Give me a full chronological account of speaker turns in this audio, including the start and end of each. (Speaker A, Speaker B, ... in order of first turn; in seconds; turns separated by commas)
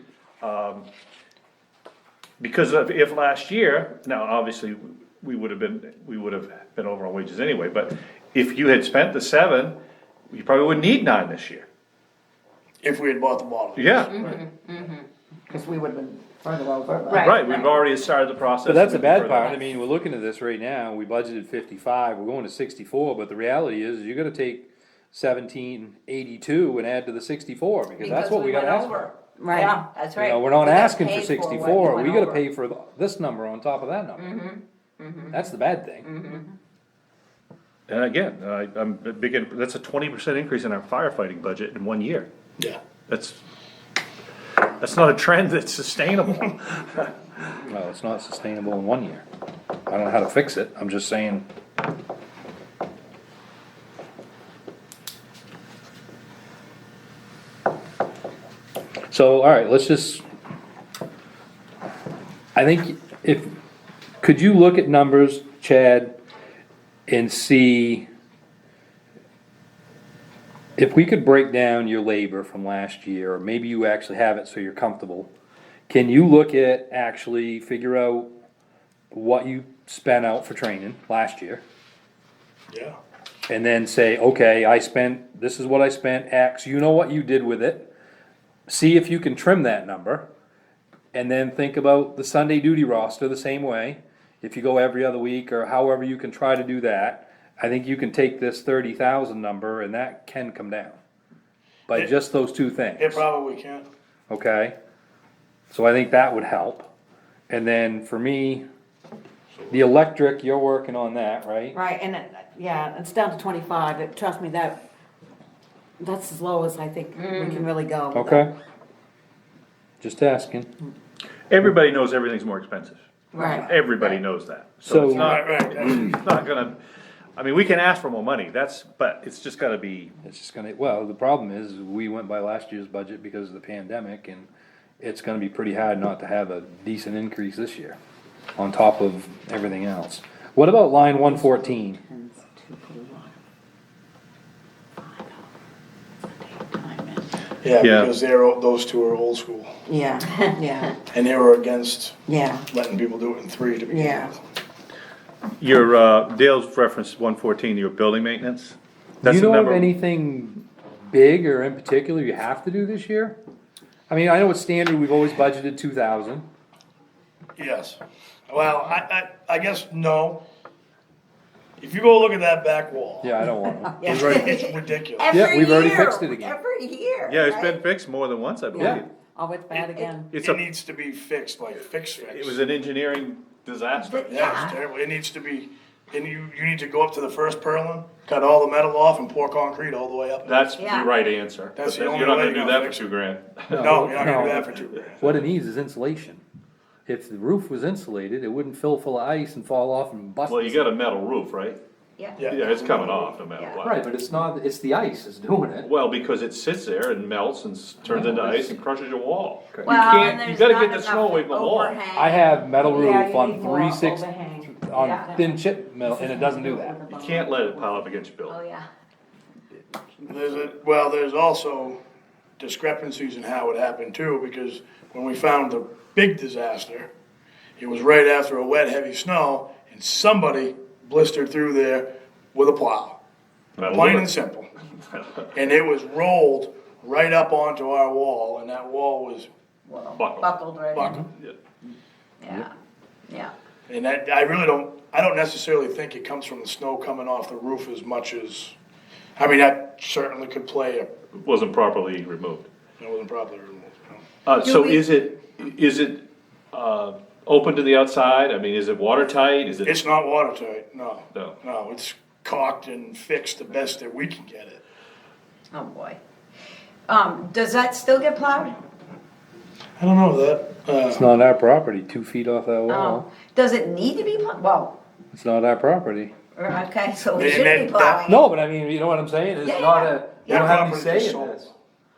Speaker A: 0.4-0.9, Speaker A: 2.4-9.8, Speaker A: 10.3-11.7, Speaker B: 12.8-14.4, Speaker A: 13.8-14.4, Speaker C: 14.1-14.7, Speaker D: 15.5-17.7, Speaker C: 17.1-17.6, Speaker A: 17.2-19.6, Speaker E: 18.6-29.1, Speaker C: 28.0-32.4, Speaker D: 29.4-29.9, Speaker E: 30.2-34.4, Speaker C: 34.2-35.5, Speaker E: 35.3-36.1, Speaker C: 36.0-36.5, Speaker A: 37.9-42.3, Speaker A: 43.1-43.4, Speaker A: 44.8-47.6, Speaker E: 47.7-49.2, Speaker E: 49.9-51.4, Speaker E: 59.1-60.2, Speaker E: 62.5-63.5, Speaker E: 64.2-66.2, Speaker E: 67.1-68.1, Speaker E: 70.8-75.3, Speaker E: 75.9-78.3, Speaker E: 79.1-81.6, Speaker B: 82.7-83.0, Speaker E: 83.5-87.9, Speaker E: 88.7-90.3, Speaker E: 91.1-101.0, Speaker E: 101.9-103.2, Speaker B: 103.0-103.9, Speaker E: 104.3-104.8, Speaker E: 105.7-106.9, Speaker E: 107.5-108.6, Speaker E: 109.7-111.8, Speaker D: 111.7-114.8, Speaker D: 116.0-118.5, Speaker C: 117.2-117.7, Speaker E: 118.1-118.5, Speaker E: 120.0-120.7, Speaker A: 121.5-126.8, Speaker D: 123.3-123.7, Speaker E: 124.8-125.3, Speaker B: 125.1-126.2, Speaker A: 127.3-130.1, Speaker E: 130.2-134.5, Speaker E: 135.0-138.0, Speaker E: 138.6-142.0, Speaker D: 141.3-143.4, Speaker D: 145.0-145.4, Speaker D: 146.4-147.3, Speaker B: 147.6-149.8, Speaker A: 147.8-148.1, Speaker D: 149.9-151.0, Speaker B: 151.1-154.4, Speaker D: 152.3-152.7, Speaker D: 153.9-154.3, Speaker A: 155.6-159.9, Speaker E: 159.2-163.4, Speaker E: 164.1-166.4, Speaker B: 167.6-170.4, Speaker B: 171.8-173.4, Speaker E: 173.2-174.3, Speaker C: 174.0-177.7, Speaker D: 174.0-174.5, Speaker B: 174.0-175.4, Speaker E: 175.3-176.6, Speaker A: 177.3-179.1, Speaker D: 178.7-180.4, Speaker E: 178.8-179.0, Speaker C: 179.8-180.1, Speaker A: 180.3-180.6, Speaker B: 180.4-182.6, Speaker A: 182.2-184.2, Speaker C: 184.0-184.8, Speaker B: 184.2-190.5, Speaker A: 190.4-194.3, Speaker C: 190.8-191.1, Speaker B: 191.8-193.0, Speaker B: 193.7-195.5, Speaker E: 193.7-196.4, Speaker E: 197.1-200.9, Speaker A: 200.5-201.8, Speaker C: 202.2-202.5, Speaker B: 202.4-203.3, Speaker A: 202.5-204.0, Speaker E: 203.8-205.9, Speaker A: 205.8-212.0, Speaker E: 208.0-208.8, Speaker E: 209.7-210.2, Speaker C: 209.8-212.6, Speaker E: 212.2-217.0, Speaker D: 212.8-218.0, Speaker C: 214.9-215.3, Speaker A: 217.1-218.6, Speaker C: 218.5-218.9, Speaker B: 220.2-222.0, Speaker B: 222.6-227.1, Speaker B: 227.8-233.2, Speaker A: 233.8-234.3, Speaker B: 233.9-234.7, Speaker B: 235.5-239.5, Speaker C: 239.8-241.2, Speaker A: 240.2-240.6, Speaker B: 240.9-241.2, Speaker E: 241.0-241.2, Speaker A: 241.3-241.6, Speaker C: 242.4-242.7, Speaker C: 243.3-243.5, Speaker B: 243.9-248.8, Speaker B: 249.3-251.1, Speaker A: 251.3-252.7, Speaker B: 253.0-254.2, Speaker A: 254.5-260.0, Speaker C: 254.6-255.2, Speaker B: 259.9-264.8, Speaker C: 265.7-266.2, Speaker C: 267.1-268.8, Speaker B: 270.0-271.2, Speaker E: 271.1-273.2, Speaker C: 272.9-275.0, Speaker E: 275.3-276.3, Speaker C: 276.6-278.4, Speaker B: 277.3-278.2, Speaker E: 278.3-281.7, Speaker C: 279.6-280.1, Speaker B: 280.4-281.6